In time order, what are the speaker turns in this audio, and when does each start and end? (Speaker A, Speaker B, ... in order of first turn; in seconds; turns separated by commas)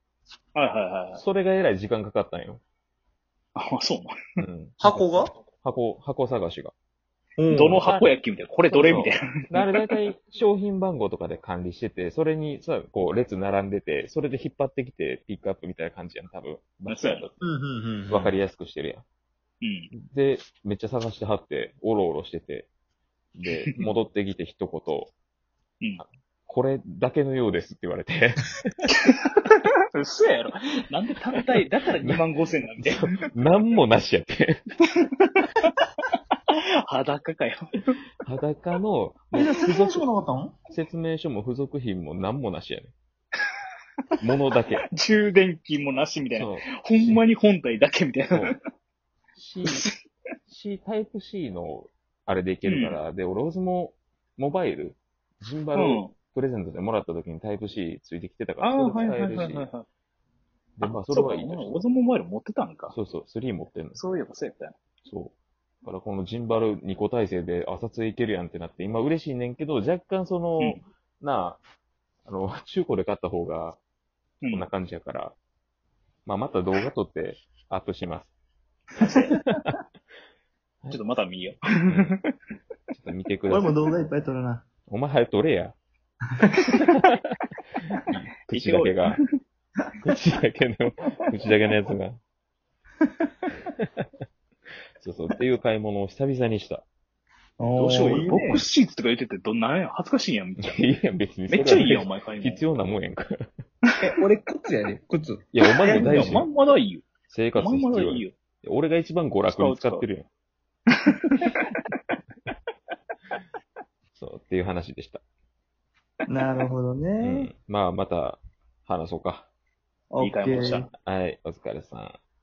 Speaker A: 0.6-1.2, Speaker B: 1.1-2.6, Speaker A: 3.6-4.1, Speaker B: 4.4-6.7, Speaker C: 4.8-5.3, Speaker C: 7.4-7.9, Speaker A: 7.5-9.7, Speaker B: 7.8-8.1, Speaker B: 8.7-17.3, Speaker A: 16.9-17.4, Speaker C: 17.4-18.4, Speaker B: 18.1-19.0, Speaker A: 19.6-19.9, Speaker B: 19.9-22.7, Speaker B: 23.4-25.1, Speaker B: 26.0-28.7, Speaker A: 29.0-33.1, Speaker B: 32.8-34.6, Speaker A: 35.2-35.7, Speaker A: 36.5-37.9, Speaker B: 38.2-40.1, Speaker C: 39.3-40.5, Speaker B: 40.7-42.9, Speaker B: 44.2-44.9, Speaker A: 44.9-48.6, Speaker B: 46.3-47.2, Speaker B: 48.3-48.6, Speaker B: 49.4-49.9, Speaker A: 49.7-49.9, Speaker B: 50.5-59.7, Speaker A: 52.6-53.0, Speaker A: 55.8-56.1, Speaker A: 58.6-59.9, Speaker B: 60.8-61.8, Speaker A: 61.1-62.9, Speaker B: 62.9-64.0, Speaker A: 64.0-64.8, Speaker B: 65.0-71.6, Speaker B: 72.2-73.8, Speaker A: 74.4-74.7, Speaker B: 74.5-75.4, Speaker B: 76.3-78.3, Speaker A: 79.0-79.5, Speaker B: 79.3-79.7, Speaker A: 80.9-82.3, Speaker B: 81.9-82.2, Speaker B: 82.9-83.8, Speaker C: 83.5-84.6, Speaker B: 84.9-85.8, Speaker B: 88.0-89.2, Speaker A: 88.5-89.2, Speaker B: 90.0-92.2, Speaker B: 95.0-96.8, Speaker C: 97.6-98.6, Speaker A: 97.8-100.9, Speaker B: 100.6-103.5, Speaker A: 101.5-102.6, Speaker C: 104.0-106.3, Speaker B: 105.5-106.5, Speaker A: 105.8-108.3, Speaker B: 107.3-110.3, Speaker A: 109.5-110.1, Speaker A: 111.2-111.8, Speaker B: 114.2-115.2, Speaker C: 116.3-117.5, Speaker B: 117.2-119.5, Speaker C: 120.1-120.9, Speaker A: 120.2-120.9, Speaker B: 121.0-122.2